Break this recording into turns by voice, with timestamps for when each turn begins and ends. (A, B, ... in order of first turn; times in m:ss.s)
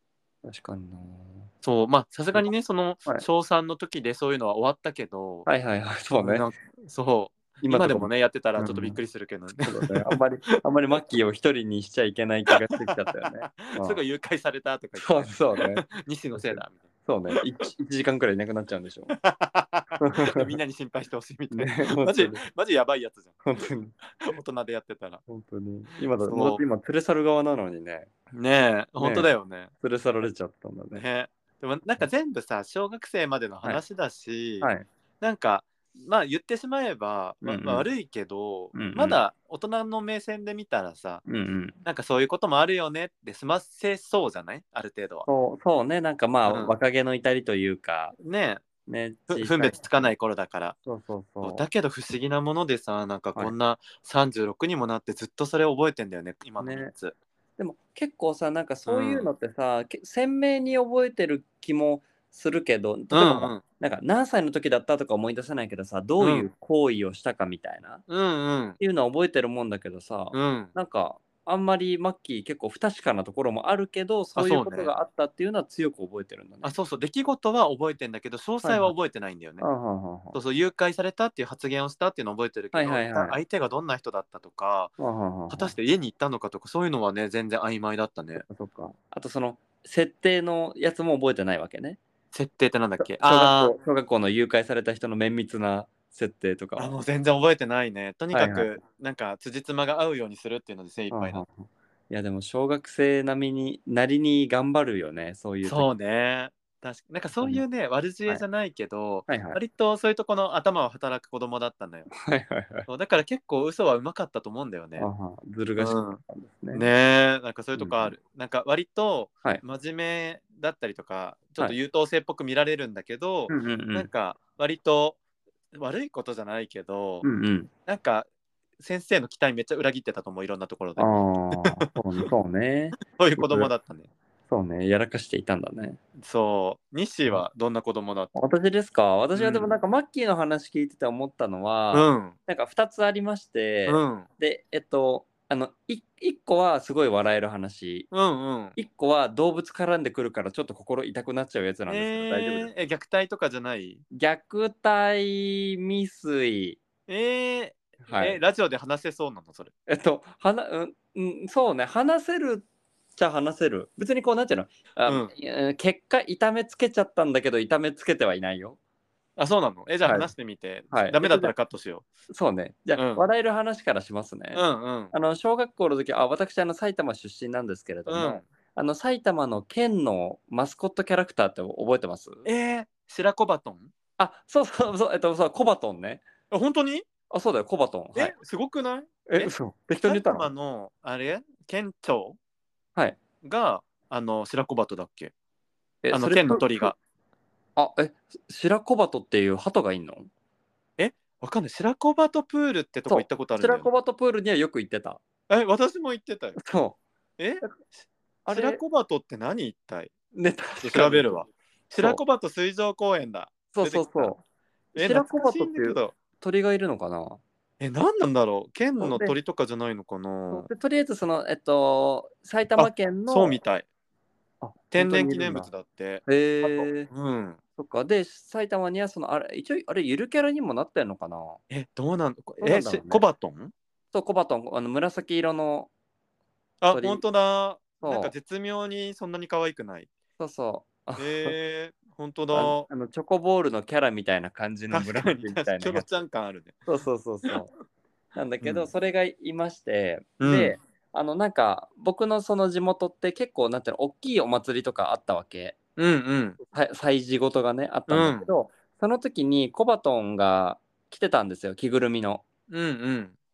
0:00.4-0:01.5 A
0:01.6-0:05.5 B
0:05.4-0:06.5 A
0:06.1-0:10.2 B
0:07.6-0:09.0 A
0:09.6-0:14.0 A
0:13.6-0:16.8 B
0:15.0-0:19.2 A
0:19.1-0:23.4 B
0:20.0-0:20.5 A
0:21.5-0:22.4 A
0:23.4-0:24.0 A
0:24.2-0:25.2 B
0:25.3-0:28.1 A
0:26.2-0:26.6 B
0:28.3-0:29.7 B
0:29.0-0:29.3 A
0:29.8-0:31.0 A
0:30.9-0:34.7 B
0:34.6-0:34.8 A
0:35.2-0:41.2 B
0:37.4-0:37.9 A
0:38.7-0:39.2 A
0:41.2-0:41.8 A
0:41.8-0:45.3 B
0:45.2-0:48.2 A
0:46.5-0:46.8 B
0:48.2-0:48.6 B
0:48.8-0:50.1 A
0:49.3-0:50.8 B
0:50.8-0:51.6 A
0:51.4-0:57.1 B
0:56.6-0:56.9 A
0:57.6-1:08.0 A
0:58.8-0:59.3 B
1:03.1-1:03.6 B
1:06.2-1:06.5 B
1:08.1-1:08.8 B
1:08.8-1:16.7 A
1:10.3-1:10.7 B
1:14.4-1:14.9 B
1:16.6-1:19.7 B
1:18.6-1:18.9 A
1:19.6-1:20.4 A
1:20.3-1:24.9 B
1:22.7-1:23.4 A
1:25.0-1:25.7 A
1:25.5-1:28.4 B
1:28.4-1:32.0 A
1:32.3-1:33.8 B
1:33.0-1:37.0 A
1:36.8-1:41.4 B
1:38.3-1:38.7 A
1:41.1-1:45.9 A
1:45.6-1:52.1 B
1:47.4-1:47.6 A
1:49.3-1:49.6 A
1:52.1-1:52.9 A
1:52.9-1:55.1 B
1:55.0-1:56.9 A
1:55.8-1:56.2 B
1:56.7-2:05.2 B
1:57.8-1:58.1 A
2:03.5-2:04.1 A
2:05.7-2:07.2 B
2:07.2-2:07.7 A
2:07.9-2:08.3 B
2:08.8-2:11.9 B
2:11.0-2:13.7 A
2:13.0-2:14.1 B
2:14.5-2:16.0 A
2:16.2-2:18.3 B
2:18.3-2:28.1 A
2:19.3-2:19.7 B
2:21.9-2:22.3 B
2:23.9-2:24.3 B
2:28.1-2:28.8 B
2:28.8-2:32.7 A
2:31.9-2:34.0 B
2:34.1-2:36.8 A
2:37.1-2:39.7 B
2:38.0-2:38.4 A
2:39.9-2:48.8 A
2:45.0-2:45.3 B
2:49.4-2:52.0 B
2:50.0-2:50.3 A
2:50.9-2:51.5 A
2:52.3-3:02.4 A
2:52.9-2:53.2 B
2:54.5-2:55.1 B
2:58.1-2:58.4 B
3:02.4-3:03.9 B
3:04.2-3:06.2 A
3:06.5-3:07.0 B
3:07.3-3:08.3 A
3:08.1-3:09.5 B
3:09.3-3:10.5 A
3:10.0-3:12.4 B
3:13.4-3:15.3 B
3:16.0-3:16.9 A
3:16.1-3:17.0 B
3:17.8-3:20.3 A
3:21.0-3:23.9 B
3:23.1-3:25.2 A
3:25.5-3:26.6 B
3:26.6-3:27.0 A
3:27.4-3:30.1 B
3:28.4-3:28.8 A
3:30.3-3:31.4 A
3:30.8-3:34.3 B
3:33.7-3:34.4 A
3:34.9-3:36.1 B
3:35.0-3:37.4 A
3:37.8-3:40.7 B
3:39.0-3:39.4 A
3:40.5-3:43.6 A
3:42.8-3:43.8 B
3:44.6-3:45.7 A
3:44.9-3:47.6 B
3:46.2-3:47.1 A
3:47.8-3:51.6 A
3:51.7-3:53.7 B
3:52.6-3:53.2 A
3:54.1-3:55.9 A
3:56.8-4:00.1 B
3:56.9-3:57.2 A
3:58.0-3:58.3 A
4:00.4-4:01.6 A
4:01.2-4:02.9 B
4:02.5-4:06.2 A
4:04.9-4:06.8 B
4:06.8-4:07.7 A
4:08.3-4:15.8 A
4:08.6-4:08.9 B
4:10.4-4:10.8 B
4:16.0-4:16.6 B
4:16.6-4:22.4 A
4:18.1-4:18.5 B
4:22.7-4:23.4 B